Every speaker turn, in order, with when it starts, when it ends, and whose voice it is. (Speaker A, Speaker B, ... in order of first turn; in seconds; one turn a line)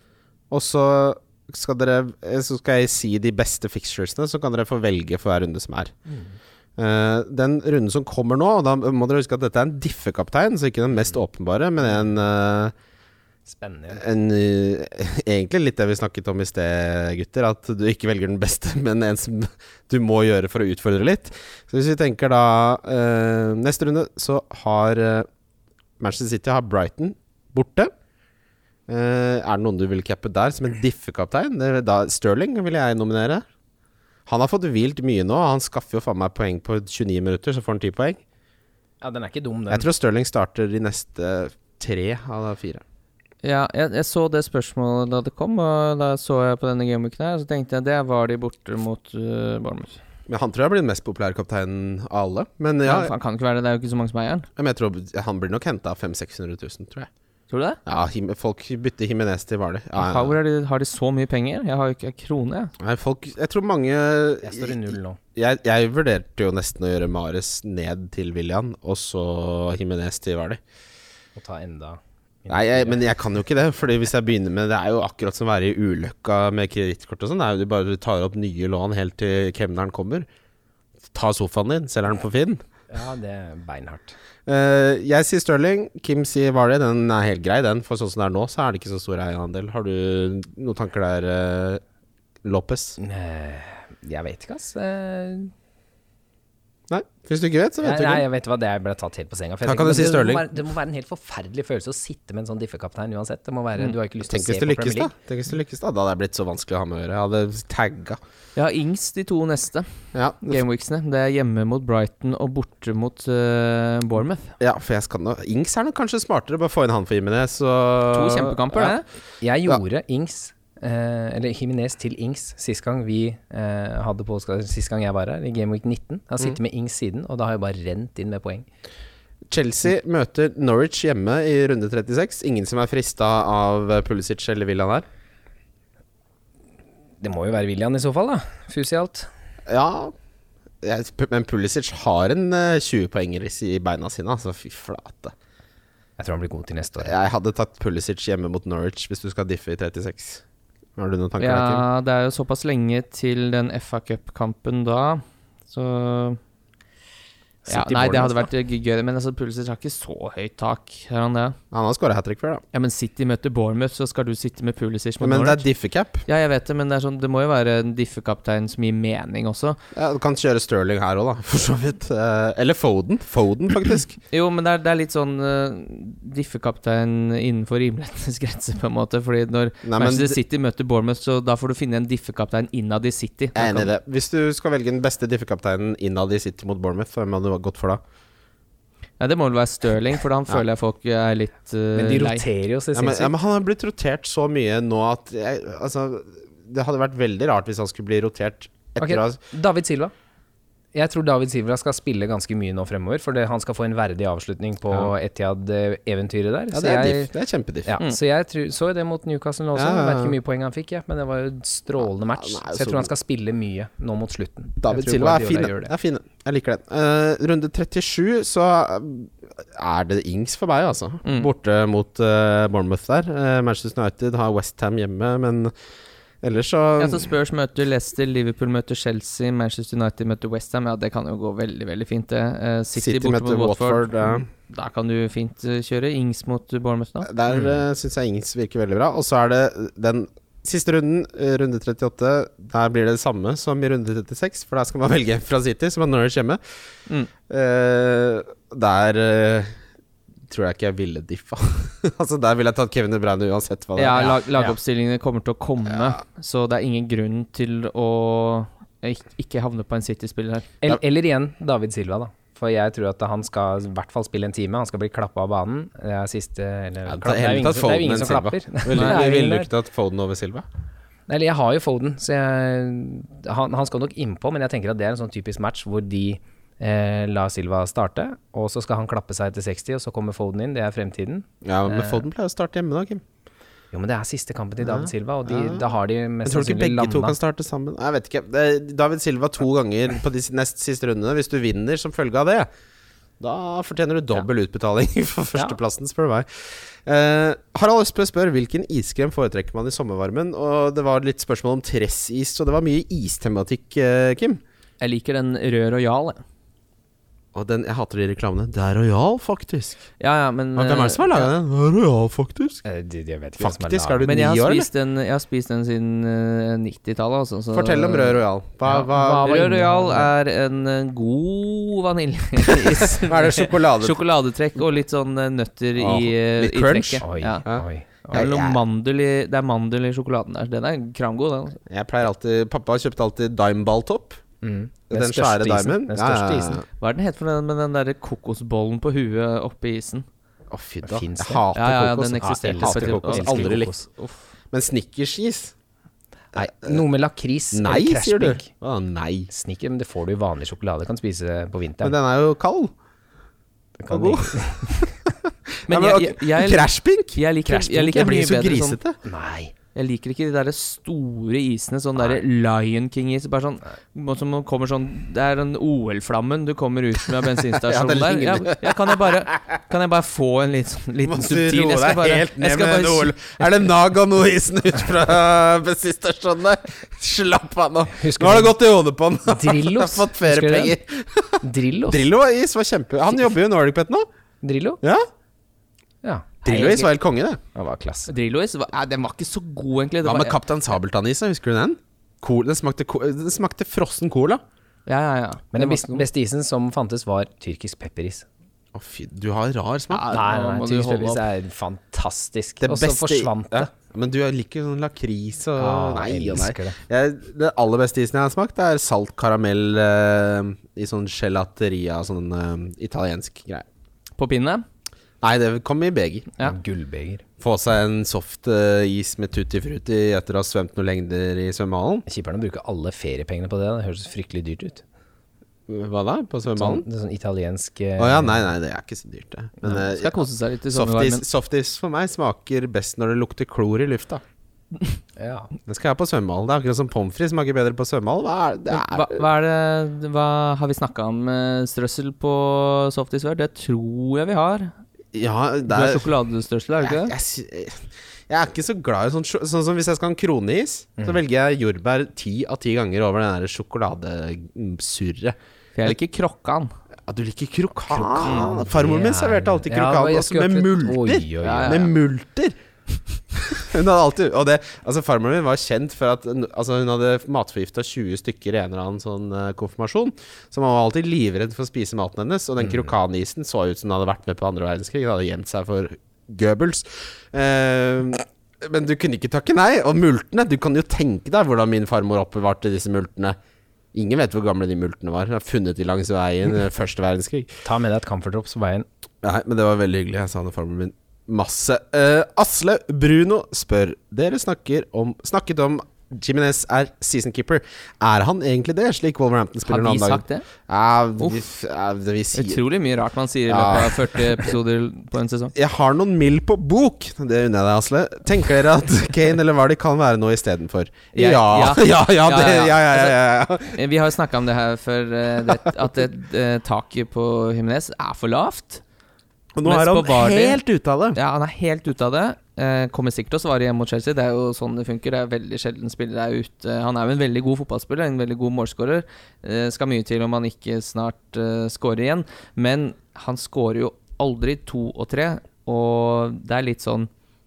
Speaker A: 0.5-5.9
Speaker A: 6.8-12.7
Speaker B: 13.5-14.0
Speaker A: 13.9-25.3
Speaker A: 26.0-27.9
Speaker A: 28.9-33.4
Speaker A: 34.3-38.2
Speaker B: 39.0-39.9
Speaker A: 39.7-42.8
Speaker C: 43.4-50.0
Speaker A: 50.3-53.1
Speaker C: 52.9-54.5
Speaker A: 54.6-57.1
Speaker C: 57.5-57.8
Speaker A: 57.9-60.4
Speaker C: 60.0-62.7
Speaker A: 62.8-70.6
Speaker B: 64.4-65.2
Speaker B: 71.4-73.0
Speaker A: 72.5-80.3
Speaker A: 81.1-82.6
Speaker B: 82.9-84.2
Speaker A: 84.5-91.8
Speaker A: 92.4-93.0
Speaker B: 93.0-95.5
Speaker A: 96.9-98.2
Speaker B: 97.8-105.1
Speaker A: 99.6-100.5
Speaker A: 104.3-108.2
Speaker C: 108.6-109.9
Speaker A: 110.1-110.6
Speaker C: 110.4-114.5
Speaker A: 114.6-119.0
Speaker C: 118.1-119.0
Speaker B: 119.4-128.7
Speaker A: 129.5-135.1
Speaker B: 137.2-139.3
Speaker A: 139.7-140.1
Speaker A: 140.8-145.3
Speaker B: 146.2-147.1
Speaker A: 147.0-150.4
Speaker A: 151.0-151.8
Speaker C: 151.4-156.4
Speaker B: 157.7-158.5
Speaker C: 157.7-161.6
Speaker A: 161.7-162.6
Speaker C: 162.7-165.7
Speaker A: 165.2-166.3
Speaker C: 166.3-169.8
Speaker A: 169.9-174.2
Speaker C: 174.3-183.9
Speaker A: 179.8-180.4
Speaker A: 183.6-188.0
Speaker C: 189.2-192.4
Speaker B: 191.9-193.3
Speaker A: 192.9-199.4
Speaker B: 199.0-200.1
Speaker B: 200.9-207.3
Speaker A: 206.7-208.0
Speaker B: 207.9-215.9
Speaker A: 209.8-210.4
Speaker A: 212.4-213.1
Speaker A: 214.8-225.7
Speaker C: 221.2-221.5
Speaker A: 226.4-227.3
Speaker C: 227.0-237.3
Speaker A: 233.0-234.5
Speaker A: 237.3-246.6
Speaker A: 247.5-249.8
Speaker A: 250.5-254.4
Speaker C: 254.0-260.7
Speaker B: 254.2-254.7
Speaker B: 260.8-269.7
Speaker A: 267.1-270.6
Speaker C: 268.9-269.2
Speaker B: 271.3-282.3
Speaker A: 281.6-283.2
Speaker B: 283.9-287.4
Speaker A: 284.8-285.8
Speaker A: 286.4-292.7
Speaker A: 293.4-296.5
Speaker A: 297.1-304.6
Speaker C: 305.0-306.4
Speaker A: 307.5-310.0
Speaker C: 310.2-311.5
Speaker A: 310.8-312.8
Speaker B: 312.8-314.3
Speaker A: 313.6-314.9
Speaker C: 314.2-318.4
Speaker A: 317.7-319.6
Speaker B: 318.9-320.3
Speaker C: 319.2-327.6
Speaker A: 322.7-324.2
Speaker A: 326.0-328.8
Speaker B: 327.2-328.4
Speaker C: 328.3-331.8
Speaker A: 331.9-334.4
Speaker B: 334.6-336.8
Speaker A: 335.1-336.8
Speaker C: 337.0-340.2
Speaker A: 340.7-343.9
Speaker B: 341.1-341.6
Speaker C: 341.7-343.9
Speaker B: 342.4-344.1
Speaker A: 344.7-345.7
Speaker B: 346.5-348.7
Speaker A: 346.6-347.0
Speaker A: 347.7-349.5
Speaker B: 349.5-352.2
Speaker A: 352.0-352.9
Speaker B: 354.0-355.1
Speaker A: 354.1-357.4
Speaker C: 355.9-359.0
Speaker B: 357.6-358.4
Speaker A: 358.1-359.2
Speaker B: 359.2-359.7
Speaker C: 359.9-373.4
Speaker A: 367.7-369.4
Speaker A: 371.3-384.3
Speaker B: 378.2-378.8
Speaker B: 379.5-381.0
Speaker B: 381.6-382.3
Speaker B: 384.6-385.0
Speaker B: 386.2-386.6
Speaker C: 386.6-387.1
Speaker A: 386.6-387.6
Speaker B: 387.8-388.3
Speaker C: 388.3-390.6
Speaker A: 390.2-394.6
Speaker C: 395.1-396.2
Speaker B: 395.7-398.5
Speaker A: 398.9-400.4
Speaker C: 400.1-401.4
Speaker B: 400.3-403.9
Speaker A: 402.8-413.9
Speaker B: 405.8-407.0
Speaker C: 414.4-414.9
Speaker A: 415.4-416.5
Speaker B: 416.6-417.4
Speaker A: 417.6-422.3
Speaker B: 422.3-425.0
Speaker A: 425.9-427.1
Speaker B: 426.8-428.7
Speaker A: 428.2-434.4
Speaker C: 429.9-431.4
Speaker B: 435.4-435.7
Speaker A: 435.9-439.4
Speaker C: 438.9-444.9
Speaker A: 445.3-446.3
Speaker C: 445.9-447.3
Speaker A: 447.0-455.6
Speaker C: 456.0-456.9
Speaker A: 457.3-462.8
Speaker B: 458.1-462.1
Speaker C: 458.4-458.7
Speaker C: 461.6-462.1
Speaker A: 463.5-483.6
Speaker A: 484.1-487.8
Speaker B: 487.9-489.1
Speaker A: 489.4-502.8
Speaker C: 499.9-500.7
Speaker C: 502.5-505.7
Speaker A: 503.7-504.7
Speaker A: 505.8-514.0
Speaker C: 511.3-519.0
Speaker A: 519.8-521.4
Speaker C: 519.8-520.8
Speaker C: 521.4-537.3